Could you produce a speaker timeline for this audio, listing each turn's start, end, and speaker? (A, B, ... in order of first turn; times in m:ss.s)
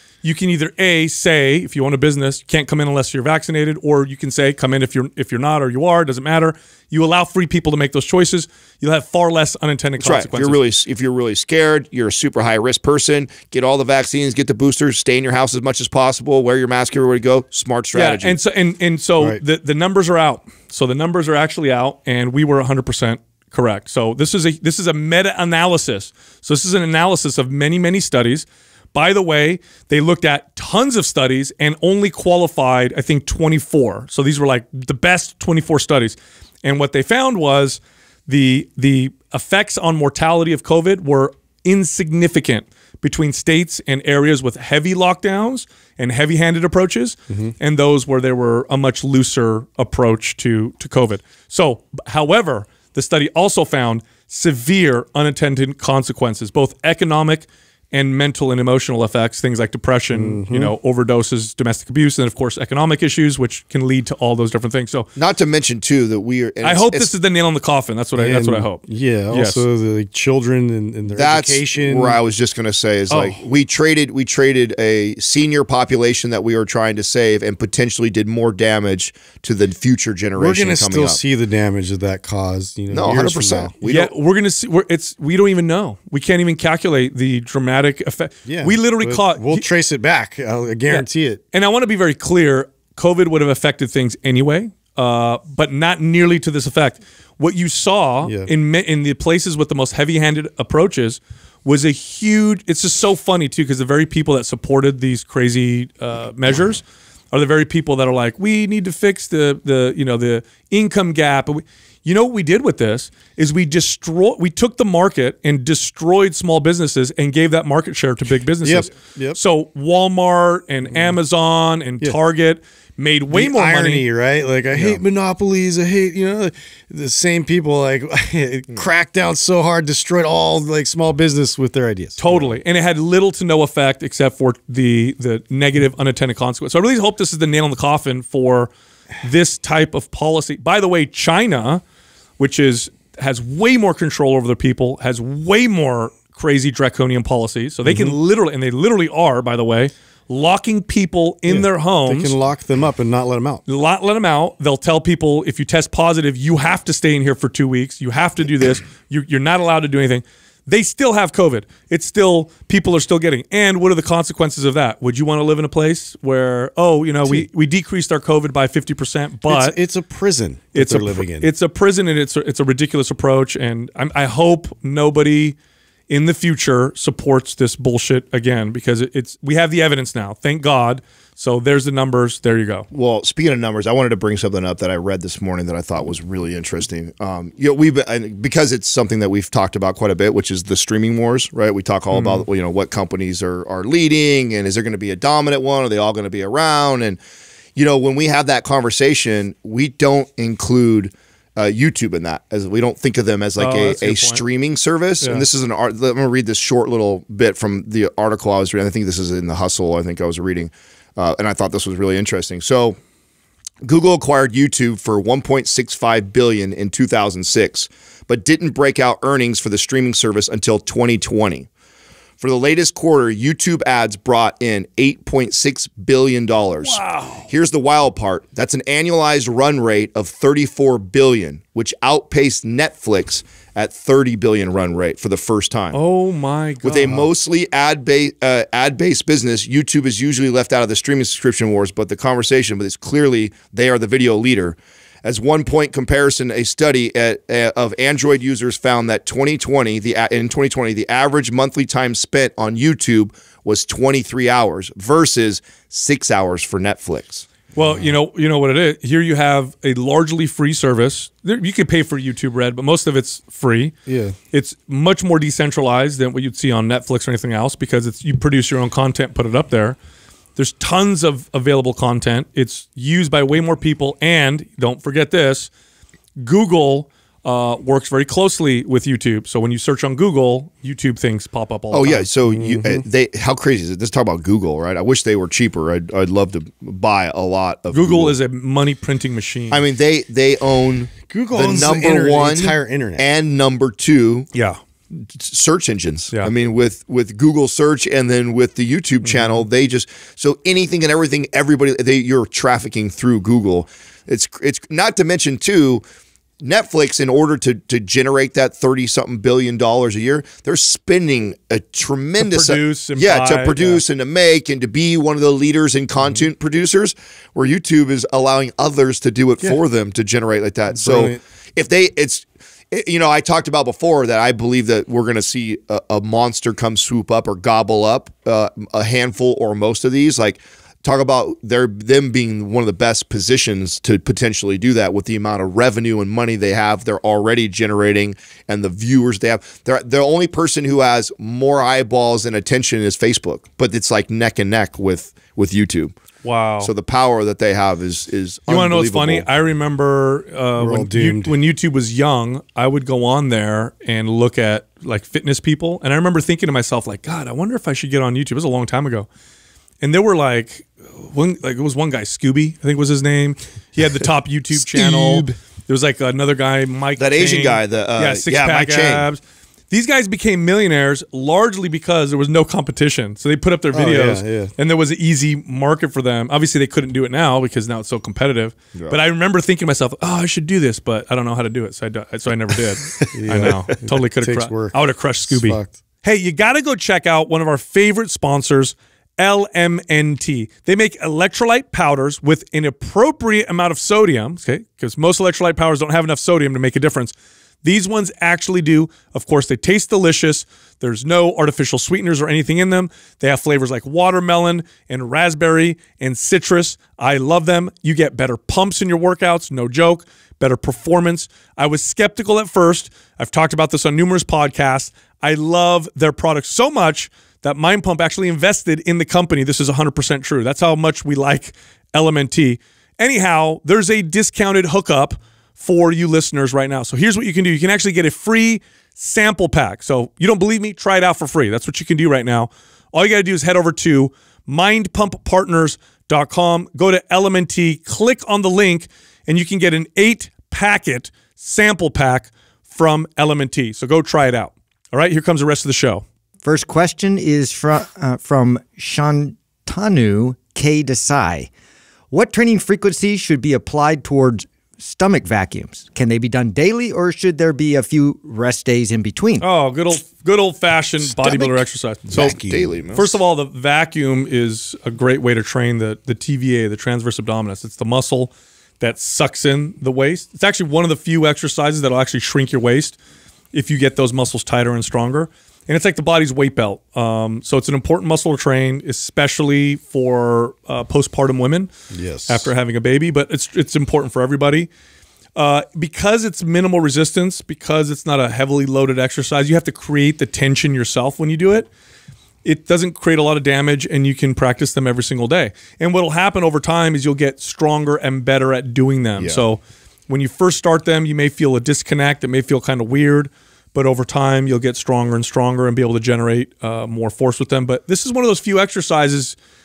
0:00.2-0:10.6 A
0:10.0-0:18.4 B
0:17.9-1:05.1 A
1:00.1-1:00.7 C
1:05.2-1:07.1 B
1:06.6-1:09.6 A
1:08.2-1:12.2 C
1:11.1-1:21.2 B
1:13.1-1:13.4 A
1:20.4-1:23.7 C
1:22.9-1:24.1 B
1:23.8-1:29.6 A
1:28.4-1:31.4 C
1:30.9-2:04.0 A
1:38.2-1:38.5 C
1:58.6-1:59.4 C
2:03.3-2:12.6 C
2:12.2-2:18.7 A
2:19.2-2:21.8 A
2:22.4-2:32.4 A
2:27.8-2:28.2 C
2:31.5-2:33.6 C
2:33.7-2:49.8 A
2:49.5-2:51.5 C
2:50.7-2:55.6 A
2:56.1-3:02.9 A
3:02.9-3:17.2 B
3:12.1-3:12.4 A
3:17.8-3:33.0 B
3:23.6-3:24.4 A
3:33.8-3:41.7 B
3:42.4-3:56.0 B
3:46.8-3:47.5 A
3:55.9-3:57.2 A
3:56.8-4:17.5 B
4:17.7-4:23.9 A
4:24.1-4:24.4 C
4:24.5-4:30.0 A
4:30.6-4:35.7 A
4:36.4-4:42.3 A
4:41.9-4:48.3 B
4:42.4-4:43.0 C
4:47.9-4:49.8 A
4:49.7-4:54.5 B
4:51.3-4:53.2 C
4:54.5-4:54.8 A
4:55.1-5:06.0 B
4:59.2-4:59.6 A
5:06.6-5:46.1 B
5:12.4-5:14.0 A
5:20.9-5:21.4 C
5:46.4-5:46.9 A
5:46.8-5:49.5 B
5:48.7-5:59.3 A
5:50.8-5:51.6 C
6:00.0-7:26.2 A
6:04.8-6:05.5 B
6:07.2-6:09.3 B
6:13.9-6:14.7 C
6:23.3-6:25.9 C
7:26.6-7:31.7 D
7:32.3-7:39.6 D
7:39.6-7:42.3 A
7:41.4-7:41.7 D
7:42.3-7:42.8 D
7:42.3-7:43.4 B
7:43.1-7:53.2 A
7:53.7-8:01.9 A
8:02.1-8:02.7 C
8:02.5-8:04.9 A
8:05.6-8:11.9 A
8:12.6-8:29.6 A